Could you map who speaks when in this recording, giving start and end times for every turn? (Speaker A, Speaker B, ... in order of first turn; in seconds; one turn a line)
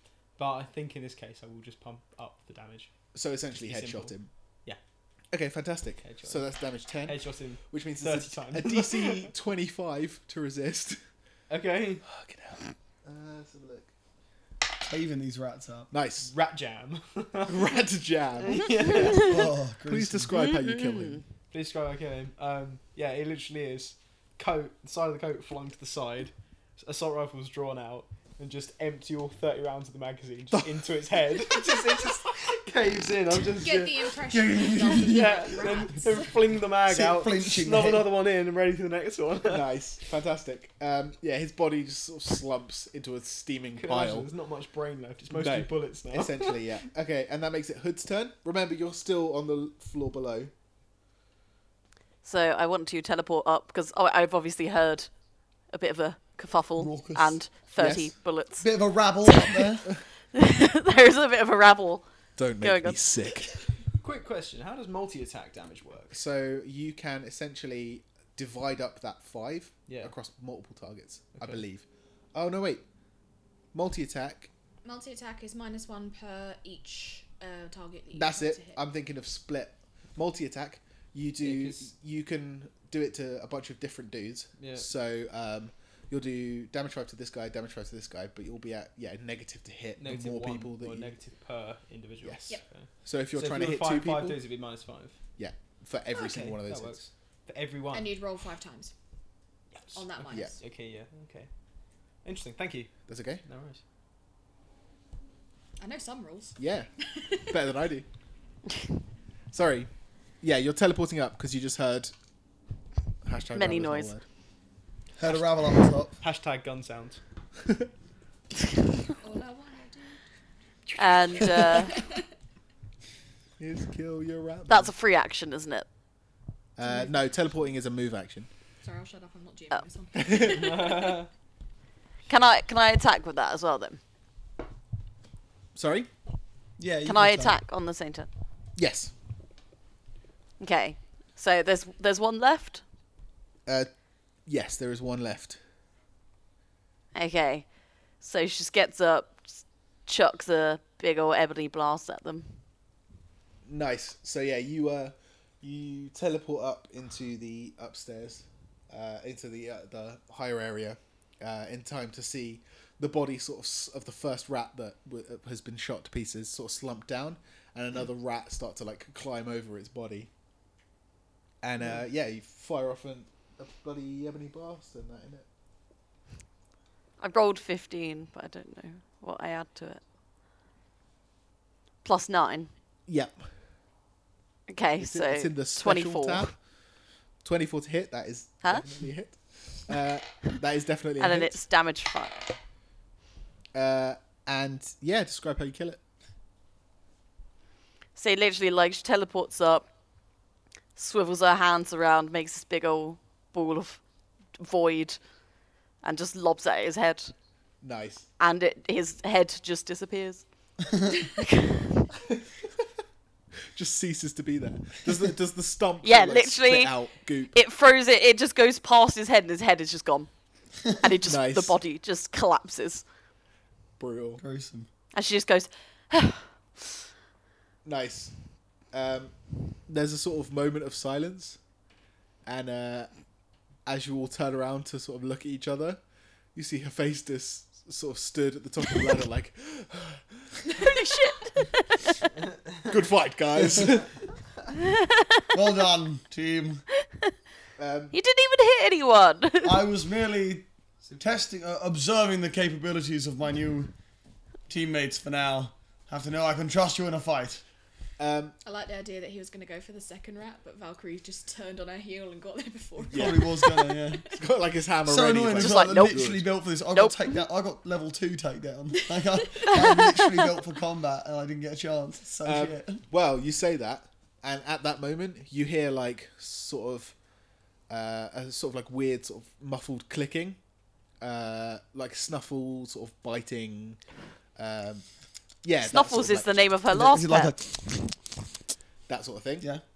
Speaker A: 0.4-2.9
Speaker B: 3.1-4.3
Speaker A: 3.5-4.1
Speaker B: 5.3-11.0
Speaker A: 6.0-6.4
Speaker A: 7.0-9.3
Speaker A: 11.5-12.0
Speaker B: 12.0-13.9
Speaker C: 14.8-15.9
Speaker B: 15.9-16.3
Speaker A: 16.2-17.7
Speaker B: 17.4-19.3
Speaker A: 18.4-19.3
Speaker C: 19.2-20.3
Speaker B: 19.9-21.2
Speaker D: 20.3-21.2
Speaker A: 21.5-34.1
Speaker B: 30.5-31.2
Speaker E: 33.4-36.4
Speaker C: 34.3-35.9
Speaker A: 34.9-39.7
Speaker C: 36.9-38.1
Speaker B: 39.5-44.3
Speaker A: 43.8-46.6
Speaker B: 45.3-50.5
Speaker D: 52.2-55.1
Speaker D: 55.7-58.7
Speaker C: 56.8-57.4
Speaker B: 57.8-58.1
Speaker C: 58.6-59.9
Speaker D: 59.2-59.8
Speaker D: 60.3-62.0
Speaker B: 62.4-63.5
Speaker D: 62.6-63.1
Speaker A: 64.0-66.2
Speaker B: 66.1-72.8
Speaker A: 69.9-70.1
Speaker A: 71.4-71.6
Speaker B: 73.7-74.5
Speaker E: 74.8-78.8
Speaker B: 78.1-91.1
Speaker A: 81.4-81.9
Speaker A: 84.6-84.8
Speaker A: 90.0-95.2
Speaker B: 92.2-94.4
Speaker B: 95.4-97.0
Speaker A: 96.1-98.1
Speaker E: 97.9-98.9
Speaker A: 99.7-101.5
Speaker E: 99.9-100.5
Speaker A: 102.2-103.8
Speaker B: 103.1-103.4
Speaker E: 105.8-106.6
Speaker B: 106.6-106.9
Speaker E: 107.2-107.5
Speaker B: 107.5-108.0
Speaker B: 109.5-112.1
Speaker B: 113.2-114.2
Speaker D: 113.5-114.1
Speaker C: 115.2-116.2
Speaker A: 116.2-117.2
Speaker E: 119.2-120.2
Speaker A: 120.9-121.7
Speaker D: 121.0-122.0
Speaker E: 121.5-122.2
Speaker B: 123.6-124.9
Speaker D: 124.7-125.9
Speaker B: 126.8-128.5
Speaker E: 126.8-127.2
Speaker E: 128.8-130.8
Speaker B: 130.1-130.9
Speaker A: 130.6-131.3
Speaker D: 132.3-134.0
Speaker B: 135.7-136.1
Speaker C: 136.8-137.6
Speaker D: 137.0-138.3
Speaker B: 138.8-139.1
Speaker D: 140.6-142.8
Speaker B: 144.4-145.6
Speaker D: 147.1-147.7
Speaker D: 148.2-152.6
Speaker B: 153.7-170.3
Speaker B: 171.6-175.4
Speaker D: 177.2-180.0
Speaker D: 182.0-182.7
Speaker B: 183.1-183.4
Speaker D: 184.7-186.5
Speaker B: 185.0-186.5
Speaker B: 187.4-191.6
Speaker D: 191.2-192.5
Speaker B: 193.7-196.0
Speaker D: 198.2-199.8
Speaker D: 200.9-204.0
Speaker D: 204.5-205.2
Speaker D: 206.0-207.3
Speaker B: 207.8-208.3
Speaker D: 208.4-211.9
Speaker B: 213.7-217.5
Speaker D: 216.0-216.9
Speaker D: 217.5-223.0
Speaker B: 221.2-221.7
Speaker B: 224.0-224.4
Speaker C: 224.4-224.9
Speaker D: 225.1-226.9
Speaker B: 227.8-228.3
Speaker B: 228.9-231.6
Speaker B: 232.4-233.1
Speaker B: 233.8-236.0
Speaker B: 236.5-240.5
Speaker D: 240.7-242.2
Speaker B: 242.9-244.1
Speaker C: 243.6-244.0
Speaker D: 244.8-245.4
Speaker C: 245.5-246.8
Speaker B: 247.8-248.2
Speaker D: 248.1-249.8
Speaker C: 249.6-253.9
Speaker A: 251.0-251.4
Speaker C: 254.7-257.6
Speaker B: 258.2-258.5
Speaker E: 258.6-264.4
Speaker B: 263.1-263.5
Speaker C: 263.1-264.3
Speaker B: 264.3-266.5
Speaker C: 265.0-273.0
Speaker D: 265.5-266.2
Speaker D: 266.9-267.3
Speaker B: 272.4-277.1
Speaker B: 277.9-280.6
Speaker B: 281.2-284.0
Speaker B: 284.6-285.0
Speaker B: 285.6-286.5
Speaker D: 285.9-287.5
Speaker C: 286.9-288.2
Speaker B: 289.1-289.7